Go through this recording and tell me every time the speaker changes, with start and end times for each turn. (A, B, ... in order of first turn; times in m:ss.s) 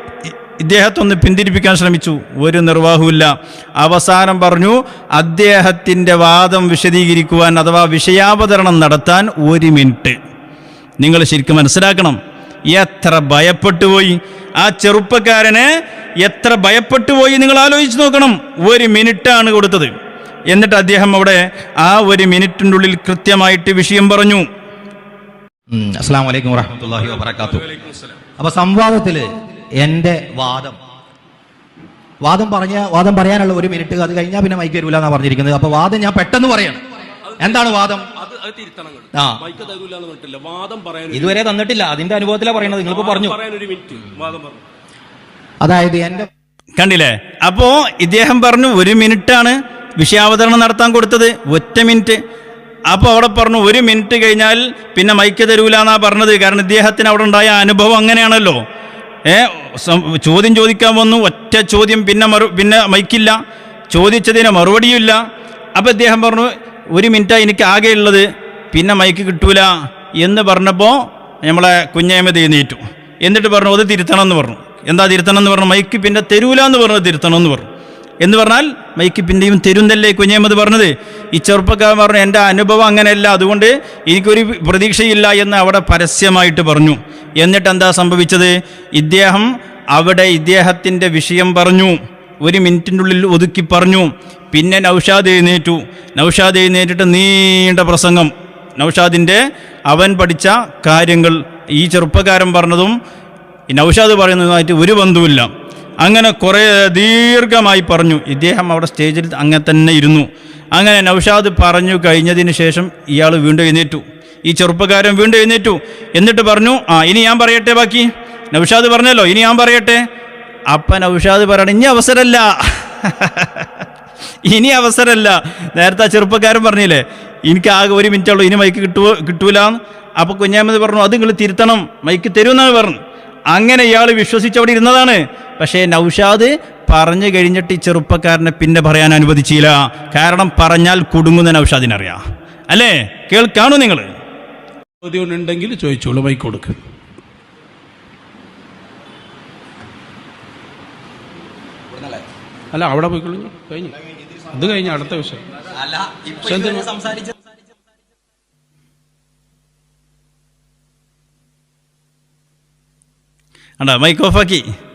0:00.6-0:10.2 A
0:11.0-0:15.7 A
0:16.2-0:19.9 A
0:20.5-0:24.5 A
0:25.7-0:27.6 B
0:27.0-0:28.2 C
0:28.4-0:30.8 B
0:32.2-0:36.8 B
0:37.3-0:41.4 C
0:37.4-0:38.1 B
0:39.1-0:39.4 B
0:41.1-0:43.4 B
0:42.6-0:44.6 C
0:45.6-0:46.3 B
0:46.8-0:52.2 A
0:52.9-0:58.6 A
0:59.3-1:03.4 A
1:03.9-1:05.2 A
1:05.8-1:09.7 A
1:10.2-1:17.6 A
1:18.2-1:43.0 A
1:43.7-1:45.5 A
1:46.0-2:00.0 A
2:00.7-2:03.7 A
2:04.4-2:13.0 A
2:13.5-2:24.1 A
2:25.0-2:26.8 D
2:32.7-2:34.0 D
2:34.5-2:35.4 D
2:35.9-2:37.2 B
2:36.4-2:37.0 D
2:43.8-2:44.6 A